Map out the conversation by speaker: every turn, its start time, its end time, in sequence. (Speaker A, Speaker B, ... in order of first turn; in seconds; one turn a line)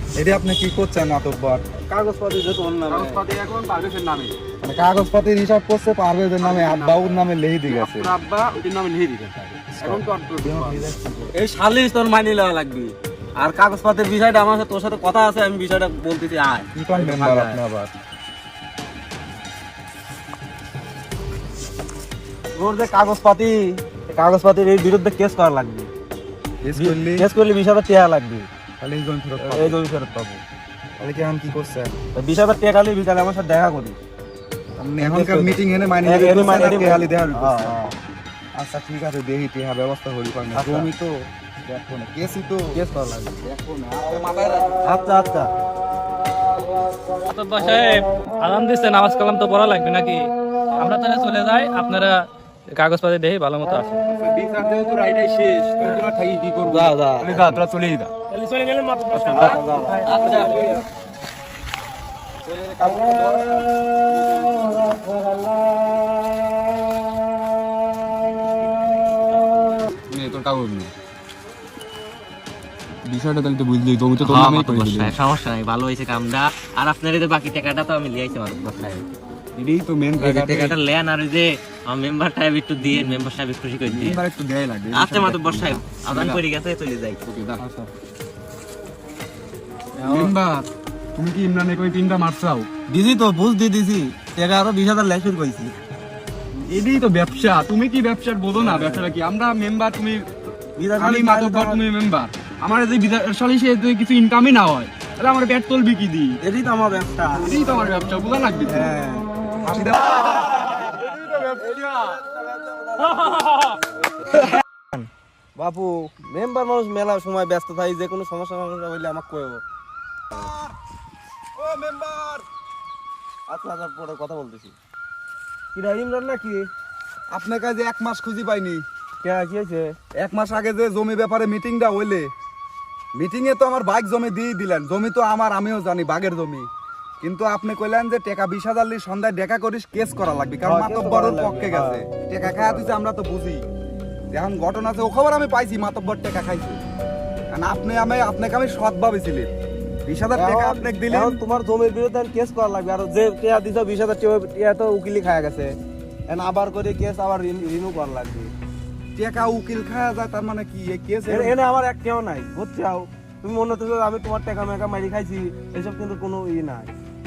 Speaker A: 0.1-1.6
Speaker B: 1.9-3.2
Speaker C: 2.9-4.4
Speaker A: 4.6-8.1
Speaker C: 6.4-10.8
Speaker A: 9.8-11.4
Speaker B: 11.3-17.6
Speaker A: 16.7-17.9
Speaker B: 22.6-25.9
Speaker A: 26.6-27.3
Speaker B: 26.8-28.5
Speaker A: 28.8-29.8
Speaker B: 29.4-30.4
Speaker A: 31.0-32.0
Speaker B: 32.1-34.0
Speaker A: 34.8-38.0
Speaker B: 35.0-37.9
Speaker A: 38.5-41.1
Speaker B: 40.5-40.9
Speaker A: 41.7-42.8
Speaker B: 42.8-43.4
Speaker A: 43.4-44.8
Speaker B: 44.9-45.5
Speaker D: 47.3-54.0
Speaker C: 54.1-58.1
Speaker B: 58.3-60.8
Speaker C: 59.1-59.6
Speaker E: 59.4-60.6
Speaker C: 60.3-60.7
Speaker C: 62.5-64.9
Speaker C: 70.1-70.9
Speaker C: 73.0-75.1
Speaker E: 74.2-79.0
Speaker C: 79.5-80.8
Speaker E: 80.2-84.2
Speaker C: 83.8-86.4
Speaker E: 84.9-87.2
Speaker C: 87.3-87.9
Speaker D: 90.0-90.3
Speaker C: 90.0-92.7
Speaker B: 92.9-95.8
Speaker C: 96.7-100.3
Speaker B: 98.6-99.1
Speaker B: 100.8-101.8
Speaker C: 100.9-106.4
Speaker B: 106.4-107.7
Speaker C: 107.4-109.0
Speaker B: 108.7-109.3
Speaker A: 109.6-110.3
Speaker B: 110.6-115.0
Speaker C: 111.0-112.2
Speaker B: 115.5-119.6
Speaker A: 120.3-120.7
Speaker A: 121.6-122.5
Speaker B: 123.5-124.7
Speaker B: 125.7-126.7
Speaker A: 127.3-128.8
Speaker B: 129.2-129.9
Speaker A: 130.2-132.3
Speaker A: 133.2-136.7
Speaker A: 137.2-143.6
Speaker B: 140.7-143.0
Speaker A: 144.3-146.8
Speaker A: 147.5-149.5
Speaker A: 150.1-151.4
Speaker B: 150.3-155.8
Speaker B: 156.3-158.5
Speaker A: 159.2-161.6
Speaker B: 161.3-166.9